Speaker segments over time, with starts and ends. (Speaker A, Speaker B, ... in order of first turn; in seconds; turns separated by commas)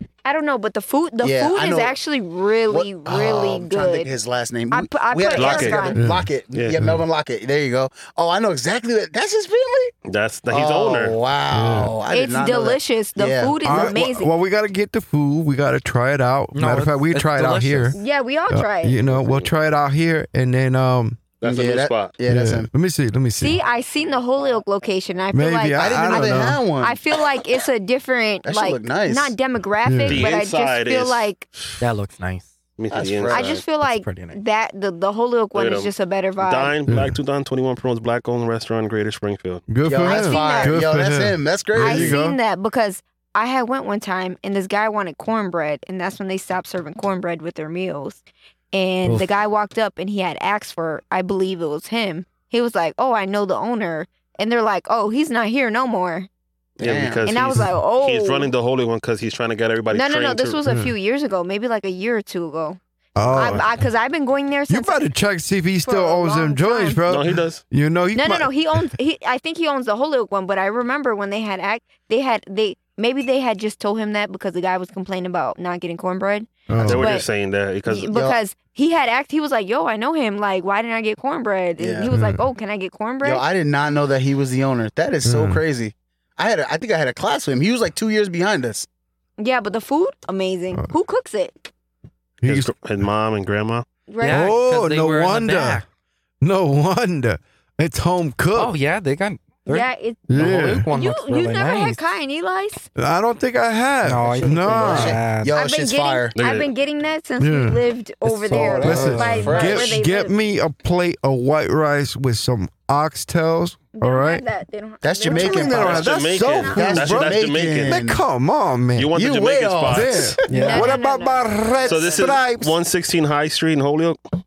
Speaker A: 0.2-4.1, Speaker B: 1.2-1.9, Speaker B: 2.7-9.9, Speaker A: 4.7-6.0, Speaker C: 5.3-5.9, Speaker D: 6.0-7.0, Speaker C: 6.5-6.8, Speaker C: 10.1-11.2, Speaker B: 10.5-14.0, Speaker D: 11.5-11.9, Speaker A: 12.1-14.3, Speaker D: 13.6-18.0, Speaker E: 16.5-18.0, Speaker A: 17.9-19.0, Speaker D: 18.5-21.2, Speaker C: 21.4-22.1, Speaker B: 21.4-22.7, Speaker D: 22.3-23.6, Speaker A: 23.4-31.4, Speaker D: 25.3-26.6, Speaker B: 25.7-27.0, Speaker B: 28.4-29.3, Speaker D: 29.8-30.3, Speaker C: 30.1-31.3, Speaker E: 31.8-32.5, Speaker C: 32.8-33.6, Speaker B: 32.9-33.5, Speaker A: 33.3-36.8, Speaker E: 33.8-34.4, Speaker C: 35.5-39.7, Speaker D: 36.9-37.1, Speaker D: 39.7-42.4, Speaker B: 39.8-42.2, Speaker A: 40.0-40.8, Speaker A: 41.8-56.3, Speaker B: 56.8-57.3, Speaker C: 56.8-60.6, Speaker A: 57.2-58.5, Speaker A: 59.9-62.8, Speaker D: 60.6-60.9, Speaker D: 63.1-63.7, Speaker C: 63.3-63.6, Speaker A: 63.3-65.0, Speaker D: 64.7-68.9, Speaker A: 65.8-67.0, Speaker C: 67.1-67.6, Speaker A: 68.1-77.3, Speaker D: 76.7-77.1, Speaker C: 76.8-78.1, Speaker A: 77.8-83.4, Speaker B: 78.1-78.4, Speaker B: 81.8-82.1, Speaker D: 82.1-82.4, Speaker B: 83.2-88.9, Speaker D: 85.2-85.6, Speaker A: 89.4-91.7, Speaker D: 92.4-92.7, Speaker C: 92.4-93.8, Speaker A: 94.1-94.5, Speaker E: 94.2-95.8, Speaker D: 94.3-95.8, Speaker D: 96.4-98.7, Speaker E: 98.5-102.0, Speaker A: 99.7-102.9, Speaker D: 100.3-100.9, Speaker D: 103.0-105.2, Speaker E: 104.0-105.5, Speaker B: 104.4-106.3, Speaker A: 105.5-110.4, Speaker C: 106.3-106.7, Speaker D: 107.4-114.4, Speaker B: 108.5-110.0, Speaker E: 108.8-109.5, Speaker A: 113.9-117.0, Speaker B: 115.0-116.2, Speaker D: 115.3-119.2, Speaker C: 115.7-118.0, Speaker B: 116.7-118.2, Speaker C: 119.0-120.4, Speaker B: 119.1-120.4, Speaker D: 119.9-122.7, Speaker E: 120.5-120.9, Speaker A: 120.5-122.3, Speaker C: 121.9-124.2